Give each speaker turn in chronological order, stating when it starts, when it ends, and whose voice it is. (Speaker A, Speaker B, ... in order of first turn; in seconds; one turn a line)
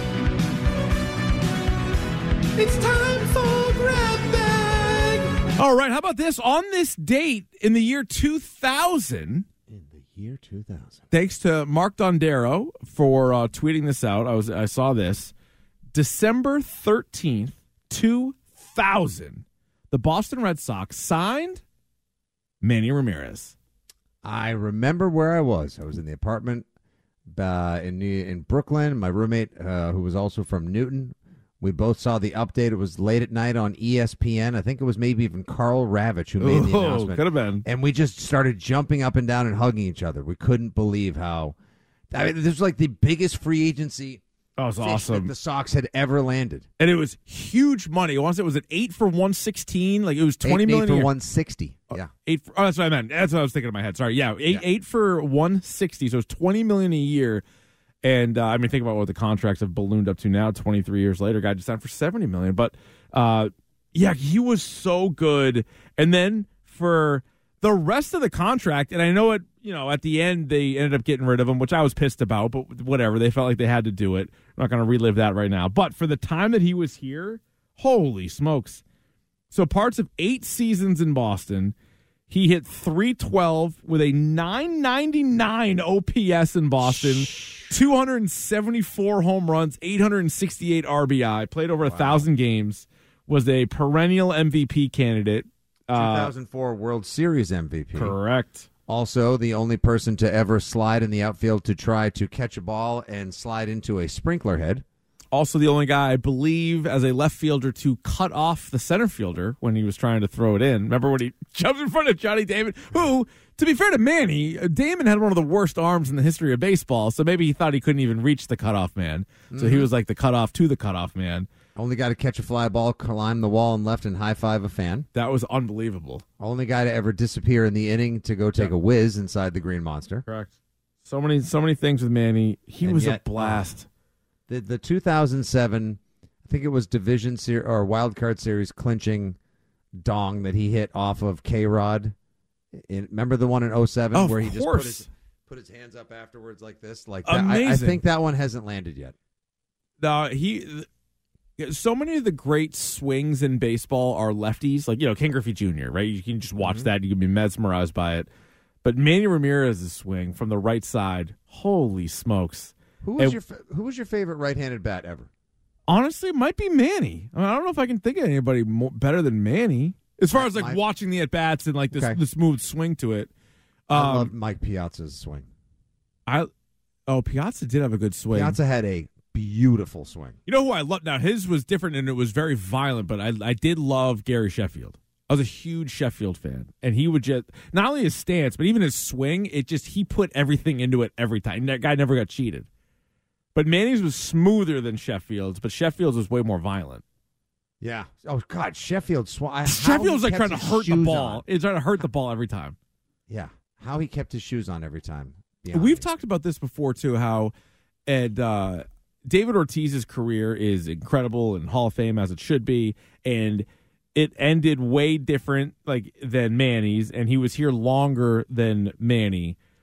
Speaker A: 2.6-9.5
Speaker B: 9.7-11.1
Speaker A: 11.1-15.3
Speaker A: 15.9-21.6
Speaker A: 22.6-23.6
Speaker B: 24.2-26.7
Speaker B: 27.3-41.5
Speaker A: 36.4-37.6
Speaker B: 42.1-44.2
Speaker A: 44.6-45.3
Speaker B: 44.8-46.7
Speaker A: 46.8-51.1
Speaker B: 50.4-52.1
Speaker A: 51.9-57.4
Speaker A: 58.0-78.8
Speaker A: 79.5-81.8
Speaker A: 82.3-96.3
Speaker B: 87.0-87.6
Speaker B: 91.8-92.3
Speaker B: 95.9-98.2
Speaker A: 98.0-98.7
Speaker B: 98.9-104.8
Speaker A: 105.3-121.5
Speaker B: 119.5-119.9
Speaker B: 121.8-125.1
Speaker A: 125.2-126.2
Speaker B: 126.4-130.2
Speaker A: 130.3-130.5
Speaker A: 131.0-133.9
Speaker B: 132.8-133.7
Speaker B: 134.5-139.4
Speaker B: 140.0-142.1
Speaker B: 142.7-149.2
Speaker A: 144.1-145.1
Speaker A: 147.2-148.0
Speaker A: 150.0-150.9
Speaker A: 151.6-158.3
Speaker B: 156.6-156.9
Speaker A: 158.8-163.4
Speaker B: 163.0-165.3
Speaker A: 165.9-173.3
Speaker B: 170.3-170.8
Speaker B: 171.9-172.2
Speaker A: 173.9-174.3
Speaker B: 173.9-175.5
Speaker A: 177.1-178.6
Speaker B: 178.3-180.4
Speaker A: 180.5-192.7
Speaker A: 193.6-197.0
Speaker B: 197.8-201.4
Speaker A: 199.7-202.8
Speaker B: 203.3-206.1
Speaker A: 205.7-207.5
Speaker A: 208.1-219.6